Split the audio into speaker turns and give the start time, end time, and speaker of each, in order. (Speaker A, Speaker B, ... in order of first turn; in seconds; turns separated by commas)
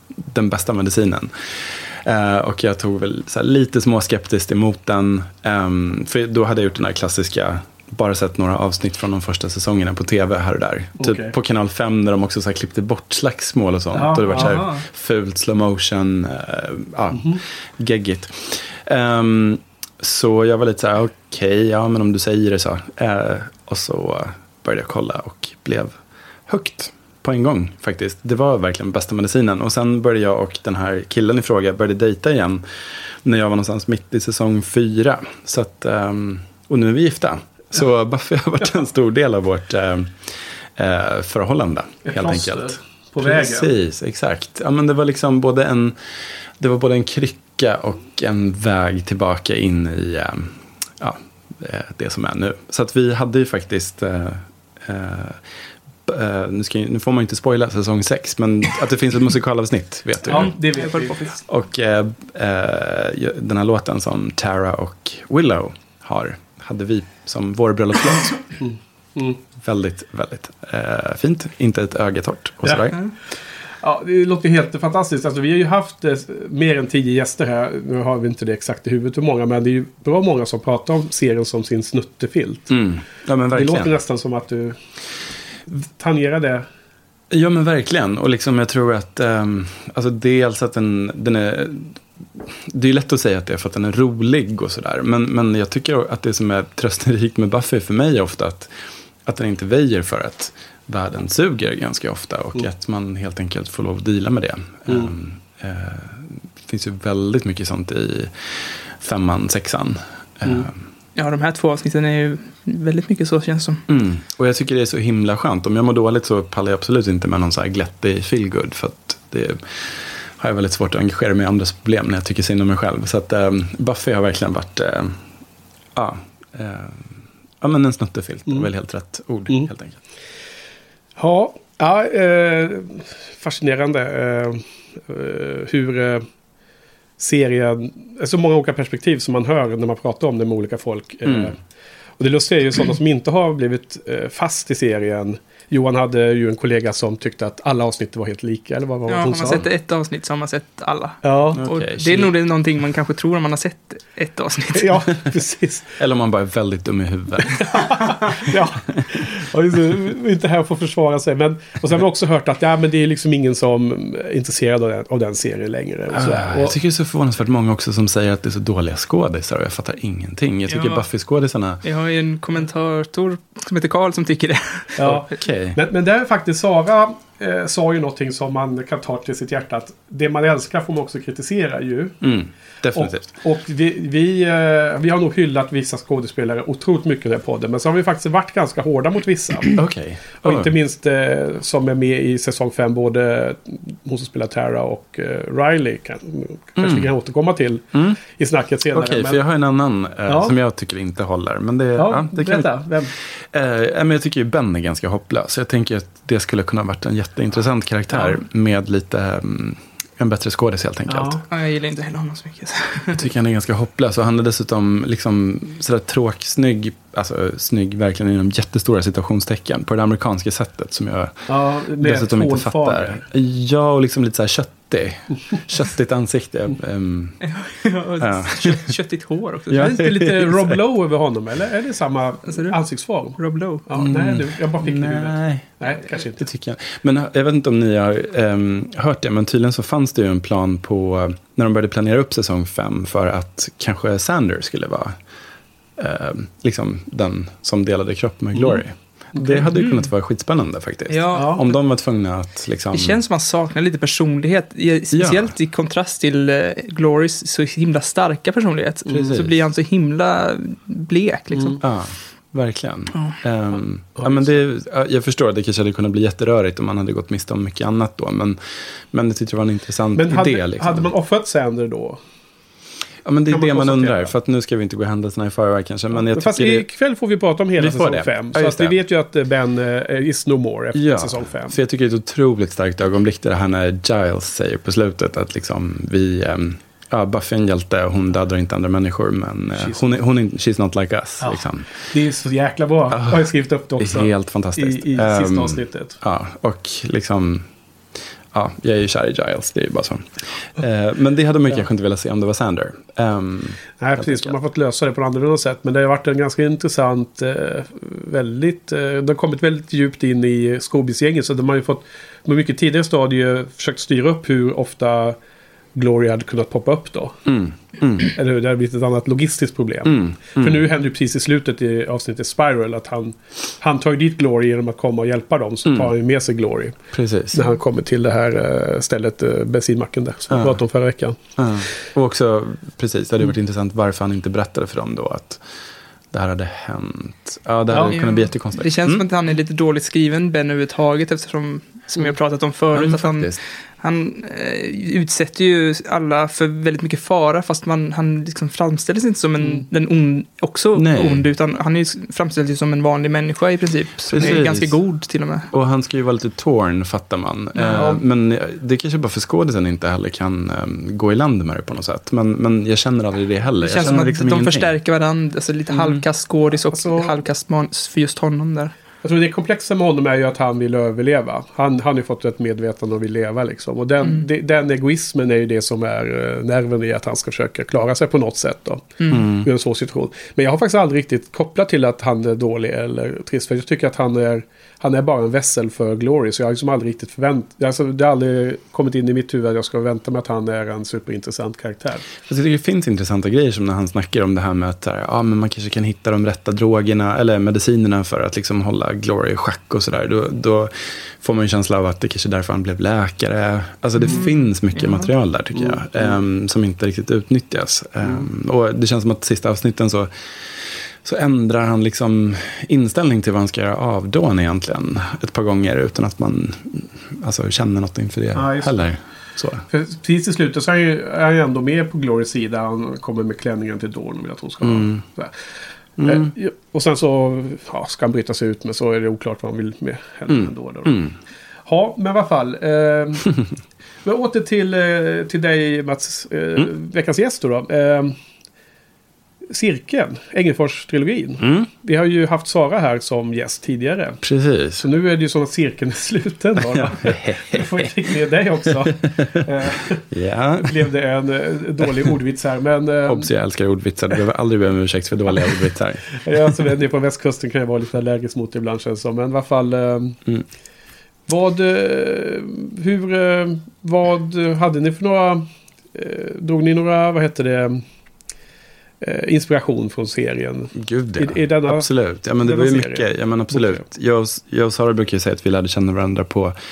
Speaker A: 0.2-32.6, Speaker B: 11.0-11.3, Speaker B: 13.9-14.7, Speaker C: 14.3-14.8, Speaker B: 17.1-17.4, Speaker A: 33.2-46.0, Speaker B: 42.0-43.7, Speaker A: 46.6-55.4, Speaker A: 56.1-60.5, Speaker B: 60.3-61.2, Speaker C: 60.3-61.4, Speaker A: 61.5-68.4, Speaker B: 68.6-69.4, Speaker A: 69.6-73.0, Speaker B: 72.6-72.9, Speaker B: 73.8-82.7, Speaker A: 82.7-84.0, Speaker B: 83.5-84.8, Speaker B: 85.7-86.7, Speaker A: 87.3-98.7, Speaker A: 99.3-110.8, Speaker C: 111.2-113.8, Speaker A: 113.9-125.2, Speaker A: 126.0-130.0, Speaker B: 131.2-136.3, Speaker B: 137.2-141.6, Speaker A: 141.2-141.5, Speaker B: 142.2-149.7, Speaker C: 149.1-155.0, Speaker B: 151.2-151.6, Speaker A: 151.6-152.3, Speaker B: 154.7-155.9, Speaker A: 156.0-157.9, Speaker B: 157.4-166.8, Speaker A: 166.1-171.8, Speaker C: 170.7-171.1, Speaker C: 171.8-175.2, Speaker B: 175.0-182.2, Speaker A: 175.1-175.8, Speaker A: 182.2-183.3, Speaker B: 182.9-189.8, Speaker A: 189.7-190.7, Speaker B: 190.4-199.4, Speaker A: 196.8-197.1, Speaker A: 197.9-198.2, Speaker A: 198.9-211.4, Speaker B: 200.3-200.6, Speaker B: 202.0-203.1, Speaker B: 211.1-211.4, Speaker C: 211.5-213.2, Speaker A: 213.2-221.5, Speaker B: 221.5-223.2, Speaker A: 222.0-227.4, Speaker C: 227.4-230.0, Speaker A: 228.2-228.9, Speaker A: 229.7-230.8, Speaker B: 229.8-236.4, Speaker C: 232.5-232.8, Speaker C: 233.4-233.9, Speaker A: 234.0-245.2, Speaker A: 246.0-253.2, Speaker C: 249.7-250.1, Speaker C: 251.1-251.8, Speaker B: 251.3-251.6, Speaker C: 252.9-261.8, Speaker A: 255.1-255.5, Speaker A: 259.1-259.6, Speaker A: 261.8-271.1, Speaker B: 264.2-264.5, Speaker B: 270.1-272.2, Speaker A: 273.2-276.9, Speaker B: 273.5-274.3, Speaker B: 276.3-281.8, Speaker A: 277.8-279.0, Speaker A: 280.9-291.9, Speaker B: 289.8-290.0, Speaker B: 291.4-296.2, Speaker A: 293.1-293.5, Speaker A: 294.0-297.7, Speaker A: 298.5-304.6, Speaker B: 304.0-315.4, Speaker B: 315.9-317.4, Speaker A: 317.5-318.3, Speaker B: 318.2-327.0, Speaker A: 320.1-320.8, Speaker A: 327.1-327.7, Speaker B: 327.5-331.4, Speaker A: 330.5-330.8, Speaker A: 331.6-335.6, Speaker A: 336.3-339.2, Speaker B: 337.9-338.1, Speaker C: 338.1-355.7, Speaker A: 342.9-343.6, Speaker A: 350.9-351.5, Speaker A: 354.3-355.0, Speaker A: 355.7-364.9, Speaker C: 357.8-358.2, Speaker B: 358.0-358.2, Speaker C: 363.8-368.9, Speaker B: 366.9-367.4, Speaker B: 369.2-392.2, Speaker A: 379.3-379.7, Speaker A: 392.5-419.9, Speaker C: 404.2-405.3, Speaker B: 405.7-406.3, Speaker B: 418.5-419.1, Speaker B: 419.9-425.6, Speaker A: 424.8-425.2, Speaker A: 426.2-426.5, Speaker B: 426.2-431.2, Speaker A: 430.5-431.4, Speaker B: 431.9-433.5, Speaker B: 434.2-438.4, Speaker B: 439.7-444.4, Speaker A: 441.6-441.9, Speaker A: 444.4-445.1, Speaker B: 445.0-450.2, Speaker A: 446.9-448.3, Speaker A: 449.3-449.7, Speaker A: 450.2-451.1, Speaker B: 450.8-453.5, Speaker A: 453.3-456.7, Speaker B: 456.3-460.4, Speaker B: 461.5-468.0, Speaker B: 469.2-472.1, Speaker A: 470.9-476.8, Speaker B: 472.6-474.0